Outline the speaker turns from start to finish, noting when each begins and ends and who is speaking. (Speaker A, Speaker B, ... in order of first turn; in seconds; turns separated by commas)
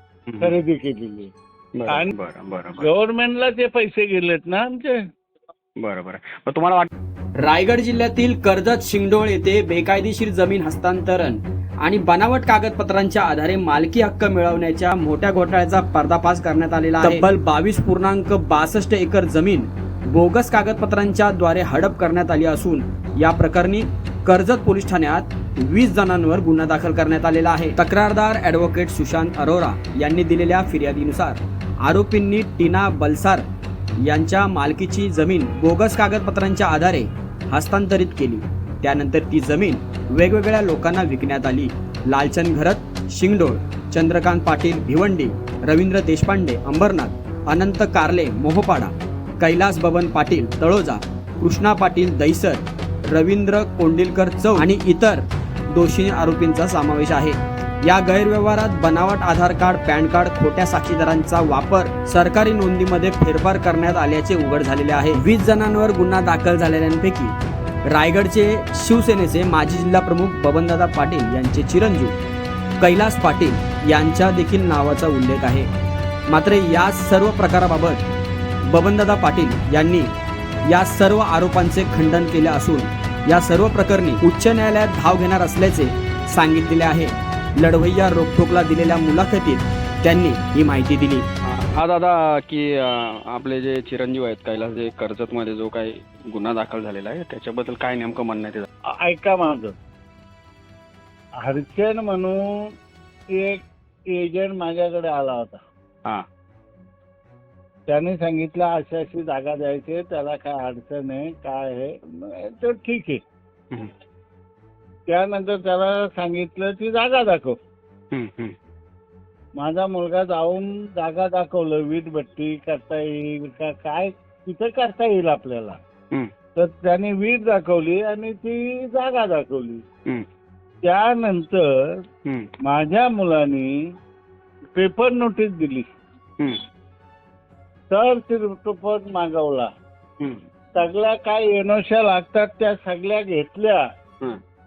Speaker A: 0.3-0.6, Speaker B: 0.4-1.3, Speaker A: 1.8-2.9, Speaker B: 2.8-5.0, Speaker A: 5.8-6.9, Speaker C: 7.4-33.4, Speaker C: 34.0-67.3, Speaker C: 67.9-72.1, Speaker C: 72.8-75.7, Speaker C: 76.3-78.0, Speaker C: 78.7-80.1, Speaker C: 80.7-91.2, Speaker A: 91.5-98.7, Speaker B: 99.0-99.7, Speaker B: 101.4-102.7, Speaker B: 103.3-105.6, Speaker B: 107.9-113.2, Speaker B: 115.1-117.6, Speaker A: 118.1-118.5, Speaker B: 119.5-125.8, Speaker B: 126.6-129.8, Speaker B: 130.8-132.0, Speaker B: 132.6-133.7, Speaker B: 134.7-135.9, Speaker B: 137.9-139.7, Speaker B: 140.8-143.8